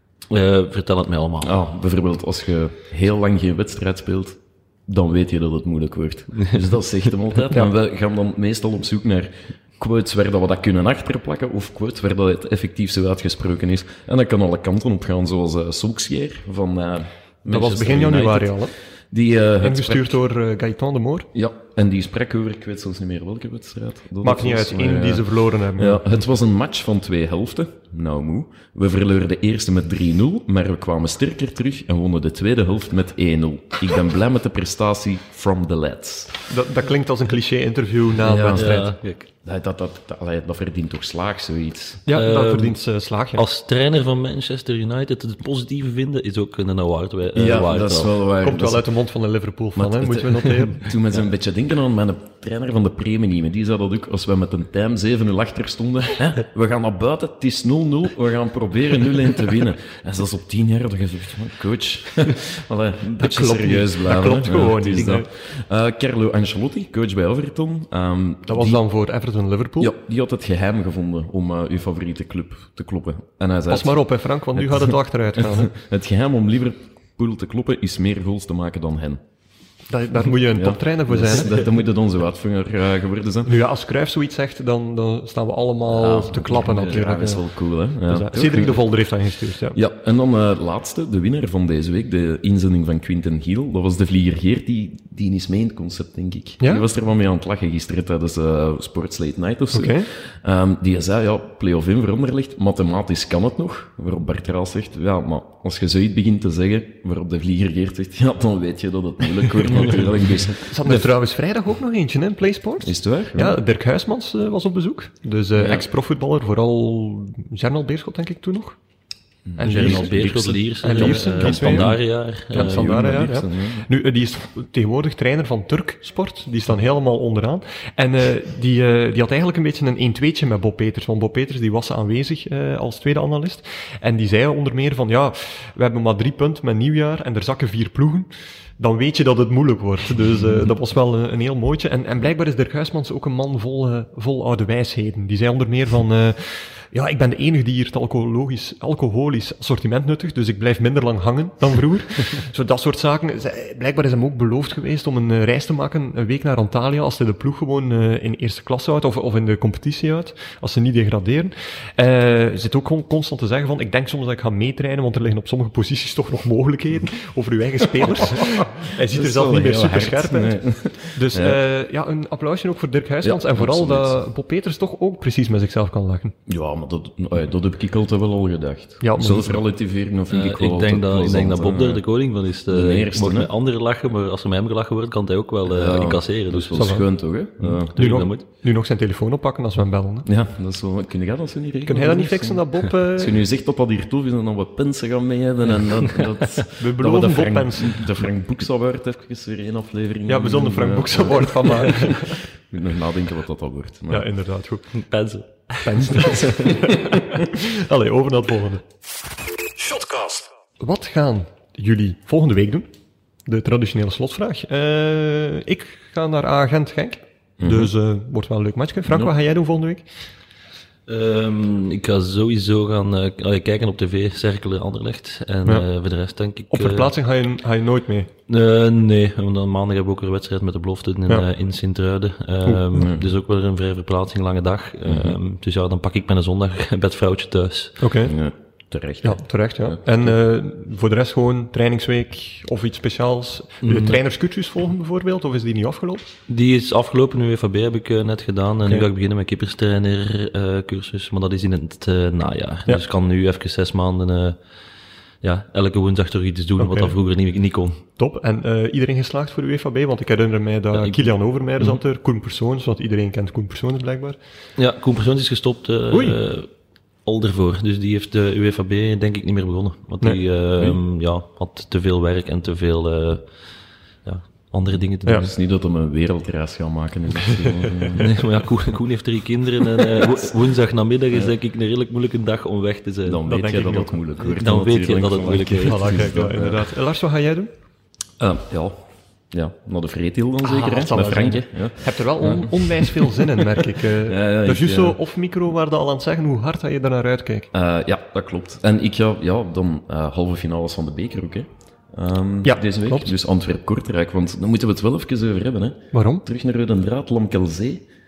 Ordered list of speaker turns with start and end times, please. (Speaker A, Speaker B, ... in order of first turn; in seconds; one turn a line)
Speaker A: 0.3-1.6
Speaker B: 1.4-20.2
Speaker C: 17.5-18.7
Speaker C: 19.6-21.3
Speaker B: 21.3-36.4
Speaker C: 24.2-26.1
Speaker C: 36.5-38.9
Speaker B: 38.2-38.9
Speaker A: 38.5-39.3
Speaker B: 39.4-42.0
Speaker C: 42.0-43.4
Speaker A: 42.1-42.8
Speaker A: 43.3-48.1
Speaker B: 47.3-48.8
Speaker C: 48.4-50.9
Speaker B: 49.8-68.8
Speaker C: 63.1-65.3
Speaker C: 68.5-69.9
Speaker B: 69.8-79.2
Speaker C: 73.7-75.7
Speaker C: 79.9-81.6
Speaker B: 80.5-83.5
Speaker C: 83.4-87.5
Speaker B: 85.9-88.9
Speaker C: 88.1-89.8
Speaker B: 89.7-111.1
Speaker C: 99.7-100.1
Speaker C: 110.6-118.8
Speaker B: 112.8-113.6
Speaker B: 115.6-115.8
Speaker B: 119.5-122.0
Speaker C: 119.6-120.2
Speaker A: 119.6-123.0
Speaker C: 120.8-138.3
Speaker B: 122.5-123.9
Speaker C: 138.8-176.3
Speaker B: 168.2-171.6
Speaker B: 173.2-174.2
Speaker B: 176.5-182.0
Speaker C: 179.0-179.6
Speaker A: 180.3-187.0
Speaker B: 182.7-183.5
Speaker B: 185.7-187.9
Speaker C: 186.8-187.1
Speaker A: 187.6-188.4
Speaker C: 187.9-190.3
Speaker B: 190.2-204.3
Speaker C: 191.8-193.4
Speaker C: 196.8-198.1
Speaker C: 200.3-202.4
Speaker C: 204.1-204.8
Speaker A: 204.9-206.6
Speaker C: 205.8-208.8
Speaker B: 206.2-207.2
Speaker C: 210.2-212.8
Speaker C: 213.5-220.0
Speaker B: 217.6-217.9
Speaker A: 221.1-227.1
Speaker C: 226.7-228.3
Speaker A: 228.5-238.0
Speaker C: 232.6-233.0
Speaker B: 232.9-233.3
Speaker B: 235.0-235.4
Speaker C: 238.0-238.3
Speaker B: 238.2-240.0
Speaker C: 239.2-246.3
Speaker A: 243.8-244.2
Speaker A: 246.5-254.6
Speaker A: 255.4-258.0
Speaker C: 256.8-257.2
Speaker C: 258.2-264.4
Speaker A: 260.9-261.3
Speaker A: 264.8-266.7
Speaker C: 266.1-266.4
Speaker A: 267.2-273.5
Speaker A: 274.2-275.5
Speaker B: 275.3-278.4
Speaker C: 277.4-278.1
Speaker A: 278.2-283.4
Speaker B: 283.2-286.8
Speaker C: 283.4-284.2
Speaker A: 284.4-286.3
Speaker C: 285.8-287.7
Speaker B: 288.4-288.9
Speaker B: 289.5-293.5
Speaker C: 290.6-297.7
Speaker B: 294.2-295.2
Speaker B: 297.7-308.0
Speaker C: 302.6-303.3
Speaker C: 306.1-306.4